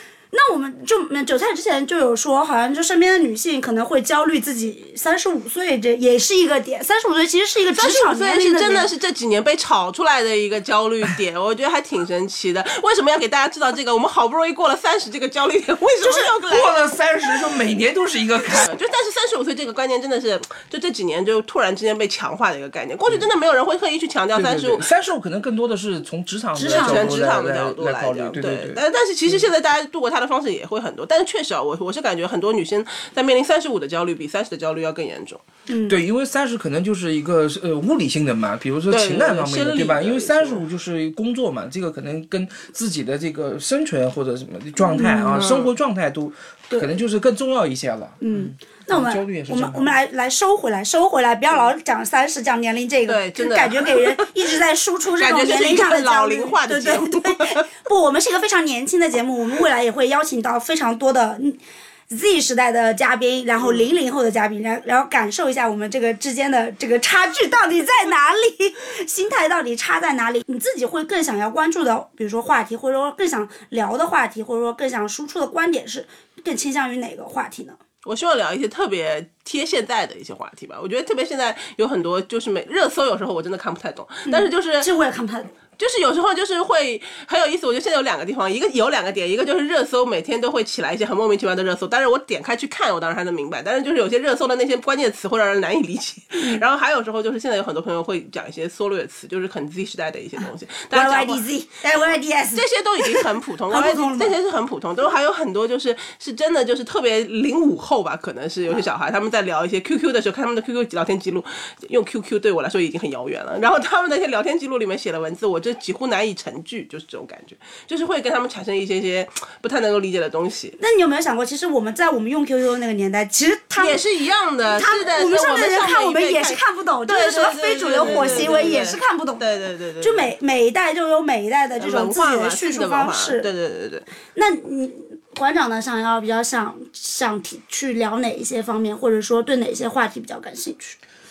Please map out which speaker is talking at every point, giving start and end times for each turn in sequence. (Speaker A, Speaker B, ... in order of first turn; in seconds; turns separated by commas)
Speaker A: 0.3-8.9, Speaker B: 7.7-16.8, Speaker A: 16.0-16.3, Speaker C: 16.5-18.8, Speaker B: 18.5-24.9, Speaker C: 24.3-29.5, Speaker A: 26.6-27.2, Speaker B: 26.7-35.4, Speaker A: 35.7-36.0, Speaker C: 35.9-50.0, Speaker B: 38.9-40.6, Speaker A: 44.8-45.5, Speaker B: 45.4-45.7, Speaker A: 48.2-77.8, Speaker B: 53.1-54.3, Speaker B: 55.2-57.6, Speaker B: 78.0-84.9, Speaker A: 84.3-85.5, Speaker B: 85.8-101.4, Speaker A: 96.3-96.6, Speaker A: 100.9-104.3, Speaker B: 102.5-120.8, Speaker A: 120.8-124.0, Speaker B: 123.8-130.3, Speaker A: 124.7-129.4, Speaker A: 130.0-133.5, Speaker B: 131.8-134.1, Speaker A: 134.3-141.0